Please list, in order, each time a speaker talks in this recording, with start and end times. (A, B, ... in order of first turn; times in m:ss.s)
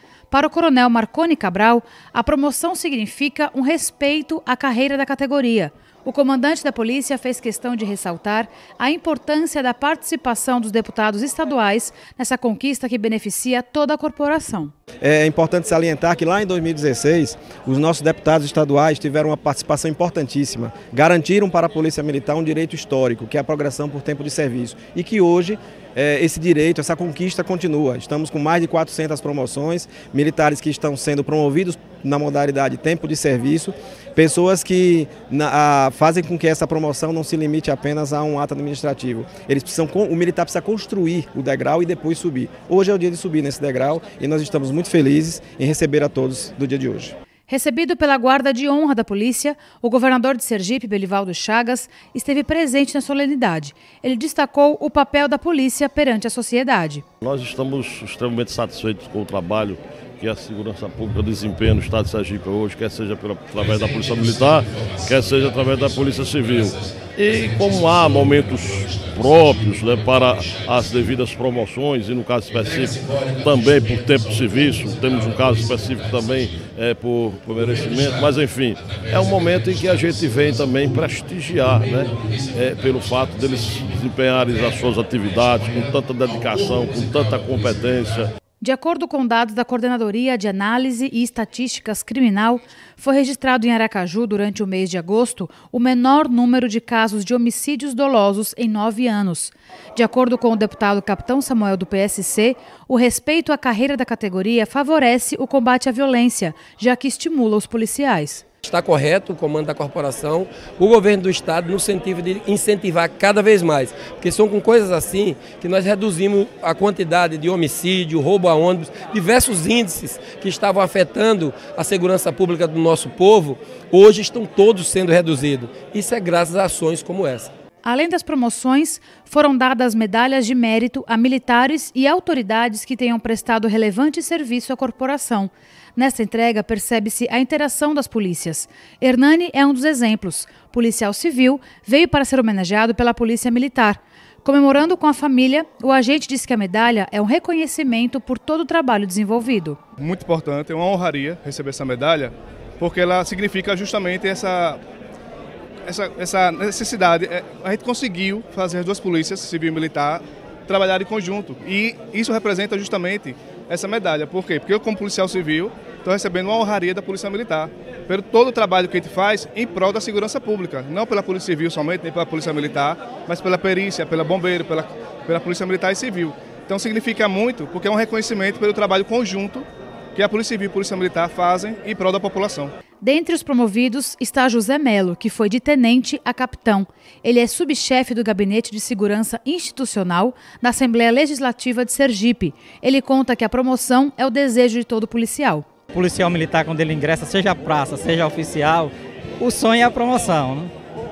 0:00.3-0:14.7 A
0:15.0-0:47.1 B
0:47.5-0:57.0 A
0:57.2-1:28.3 C
1:28.6-1:48.4 A
1:48.6-2:07.5 D
2:07.8-2:29.8 A
2:30.0-2:34.8 E
2:35.8-3:02.7 E
3:03.0-3:15.7 A
3:15.9-3:20.7 F